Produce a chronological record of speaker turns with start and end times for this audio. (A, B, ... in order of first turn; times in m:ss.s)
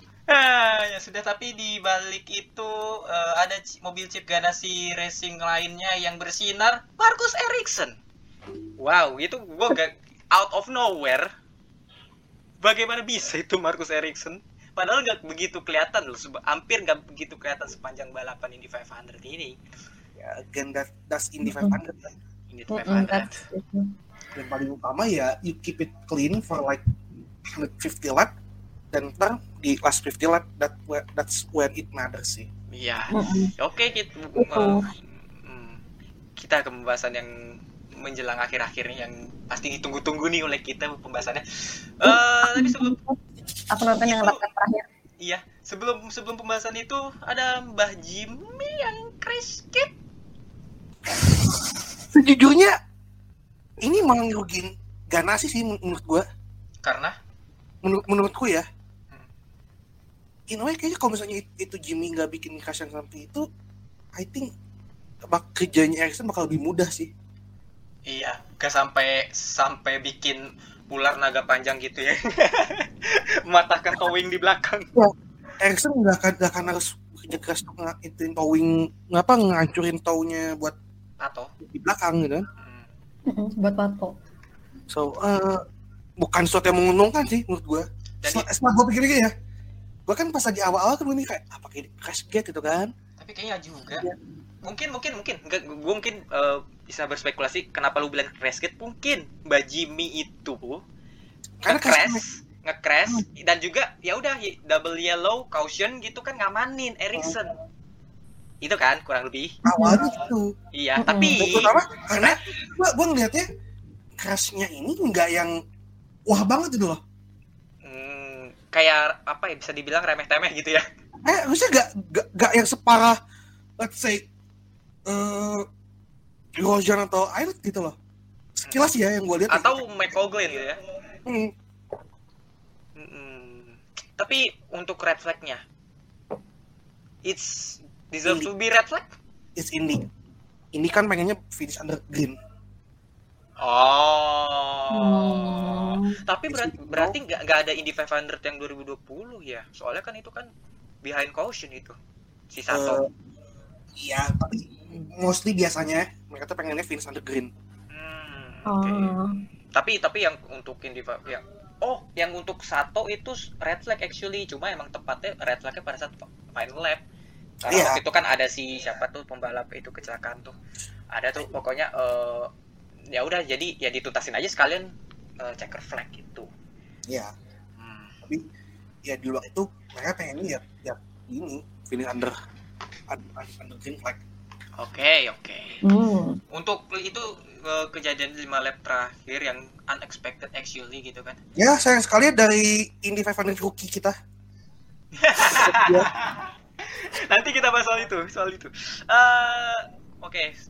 0:00.3-0:08.0 A
0:08.8-0:11.3 A
0:12.6-0:19.6 A
0:20.2-0:22.2 B
0:21.4-0:21.7 C
0:22.5-0:23.4 A
0:22.7-0:23.9 C
0:24.4-0:26.8 B
0:27.4-0:28.3 B
0:28.9-0:32.5 B
0:32.7-0:34.9 A
0:33.1-0:33.5 C
0:34.4-0:34.9 C
0:35.4-0:35.8 A
0:36.4-0:43.0 A
0:42.0-0:43.2 C
0:43.7-0:44.9 C
0:44.0-0:44.4 A
0:45.2-0:49.9 A
0:52.1-0:52.8 B
0:53.8-0:56.2 B
0:56.8-0:57.2 A
0:57.8-0:58.6 B
1:00.5-1:03.4 B
1:04.2-1:04.5 B
1:05.3-1:07.1 B
1:08.0-1:14.9 A
1:15.0-1:20.8 B
1:21.2-1:21.5 A
1:21.6-1:22.5 B
1:22.6-1:22.9 A
1:23.3-1:24.1 C
1:24.9-1:25.6 B
1:26.2-1:29.3 B
1:28.2-1:28.5 A
1:30.1-1:32.9 B
1:33.2-1:34.1 A
1:34.6-1:40.8 A
1:41.6-1:42.2 B
1:41.6-1:47.6 A
1:48.6-1:49.6 A
1:49.6-1:50.5 B
1:49.7-1:50.0 C
1:50.7-1:52.4 A
1:51.0-1:51.4 C
1:51.3-1:53.5 B
1:54.2-1:55.6 B
1:56.3-1:57.0 B
1:57.8-2:00.8 A
2:01.2-2:03.2 B
2:03.8-2:04.2 B
2:05.0-2:05.7 B
2:06.6-2:08.0 B
2:08.6-2:09.7 B
2:09.5-2:10.8 A
2:11.3-2:11.5 B
2:13.0-2:15.6 A
2:17.2-2:19.1 A
2:19.6-2:20.1 B
2:20.7-2:22.4 B
2:23.6-2:30.5 A
2:24.9-2:26.2 C
2:26.5-2:27.2 B
2:31.0-2:32.0 A
2:32.5-2:33.0 A
2:32.7-2:33.0 B
2:34.0-2:37.5 B
2:37.9-2:39.1 A
2:38.7-2:39.3 C
2:39.7-2:47.0 A
2:47.6-2:50.6 A
2:47.7-2:48.0 B
2:51.1-2:52.5 A
2:53.1-2:56.5 A
2:57.1-2:57.3 B
2:57.8-2:58.1 A
2:59.0-3:02.3 B
3:03.1-3:04.2 B
3:04.8-3:05.8 A
3:05.8-3:06.4 C
3:06.5-3:11.4 A
3:11.6-3:14.1 B
3:15.2-3:20.6 A
3:15.4-3:16.1 B